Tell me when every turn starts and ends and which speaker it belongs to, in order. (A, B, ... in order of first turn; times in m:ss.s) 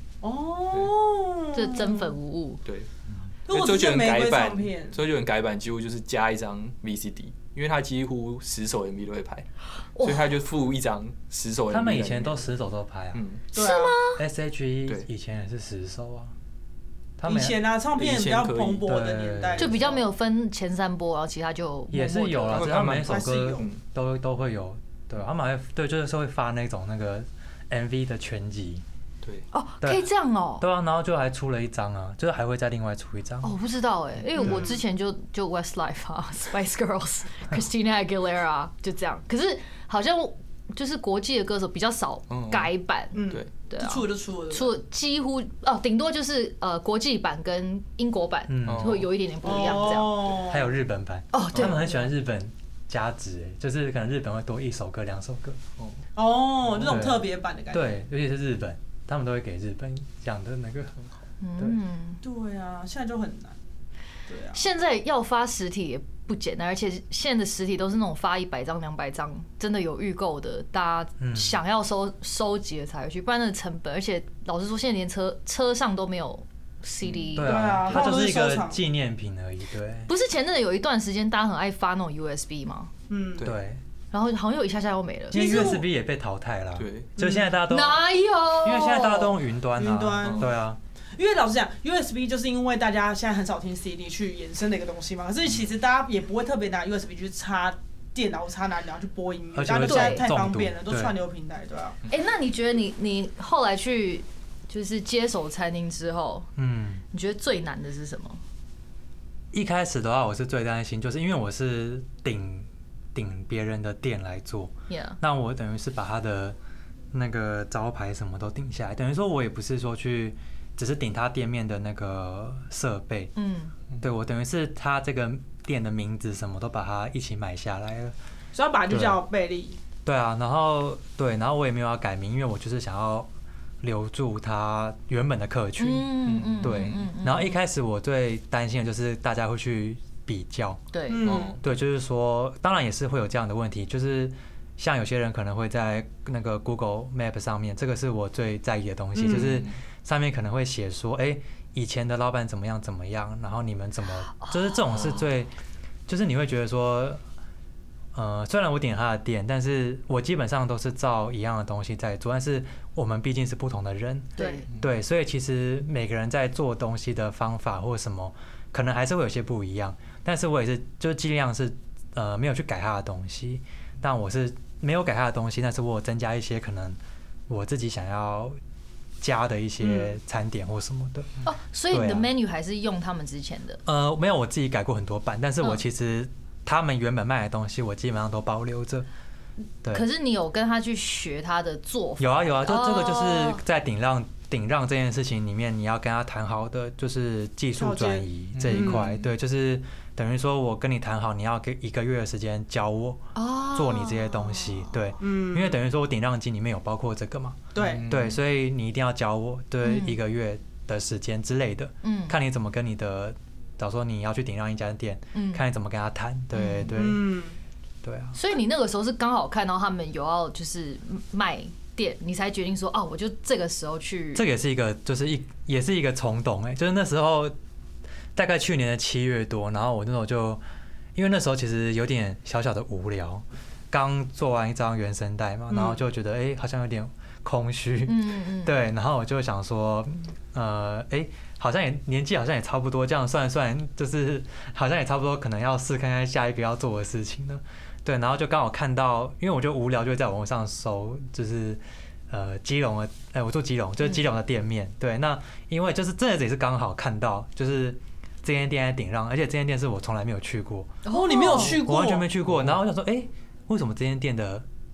0:00.2-0:02.1 A
0:01.5-0:02.6 B
0:02.6-0:02.9 C
0:03.5-0:05.0 A
0:03.5-0:09.5 C
0:09.9-0:10.3 B
0:10.0-0:12.4 C
0:11.7-0:13.2 D
0:13.1-0:13.4 C
0:13.5-0:14.0 A
0:13.5-0:14.2 B
0:14.2-0:16.3 D
0:17.2-0:17.6 D
0:17.3-0:19.9 A
0:17.9-0:18.9 C
0:18.9-0:19.8 D
0:19.6-0:19.9 C
0:19.6-0:22.6 B
0:21.9-0:28.8 D
0:22.5-0:23.8 C
0:23.0-0:23.7 A
0:29.5-0:30.6 B
0:29.8-0:30.1 D
0:30.6-0:33.6 D
0:33.4-0:50.3 B
0:34.4-0:34.8 A
0:42.3-0:42.7 C
0:43.1-0:44.8 A
0:48.5-0:49.1 D
0:48.7-0:49.1 C
0:49.4-0:50.7 A
0:50.3-0:55.6 D
0:51.3-0:52.1 B
0:56.2-0:58.0 A
0:56.8-1:01.0 D
1:01.4-1:02.2 B
1:02.2-1:03.6 A
1:04.3-1:04.6 A
1:04.5-1:18.0 B
1:11.2-1:11.5 D
1:17.0-1:17.3 C
1:17.4-1:20.1 D
1:17.4-1:18.8 A
1:20.1-1:22.9 B
1:23.1-1:23.5 A
1:23.4-1:23.8 D
1:24.1-1:25.4 B
1:25.3-1:25.9 A
1:25.3-1:28.0 D
1:26.8-1:27.1 C
1:27.2-1:27.5 A
1:27.7-1:29.3 B
1:28.6-1:30.8 D
1:29.8-1:30.5 A
1:30.2-1:30.5 C
1:31.2-1:42.0 A
1:39.5-1:41.2 D
1:39.8-1:40.3 B
1:42.1-1:46.5 B
1:46.6-1:47.0 D
1:47.1-1:48.4 B
1:49.5-1:56.6 D
1:54.9-1:55.2 B
1:57.1-2:03.3 D
2:03.4-2:03.7 B
2:04.0-2:08.2 D
2:08.5-2:09.8 A
2:08.9-2:09.2 D
2:10.0-2:13.3 D
2:13.8-2:16.1 D
2:15.8-2:17.6 B
2:16.2-2:17.0 C
2:16.6-2:20.8 D
2:20.9-2:21.3 B
2:21.1-2:21.6 A
2:21.2-2:21.6 C
2:21.6-2:35.5 D
2:29.2-2:29.8 C
2:34.3-2:35.2 B
2:36.1-2:37.2 D
2:38.1-2:58.6 D
2:44.4-2:44.6 A
2:44.4-2:44.7 B
2:59.2-3:01.3 D
2:59.8-3:00.1 A
3:01.4-3:03.8 B
3:01.9-3:02.3 D
3:03.8-3:09.1 D
3:09.9-3:13.6 B
3:12.2-3:37.3 D
3:17.8-3:19.1 A
3:18.6-3:19.1 C
3:23.3-3:24.9 B
3:25.2-3:25.8 A
3:27.8-3:28.1 A
3:27.8-3:28.4 C
3:29.8-3:30.2 B
3:32.0-3:32.4 B
3:35.3-3:35.6 B
3:36.6-3:37.0 B
3:36.9-3:37.6 A
3:38.0-3:38.4 D
3:38.3-3:44.4 B
3:44.3-3:47.6 D
3:48.3-3:50.6 D
3:51.2-4:24.7 D
3:55.7-3:56.0 A
3:58.1-3:58.8 B
4:21.0-4:21.8 B
4:21.1-4:22.3 A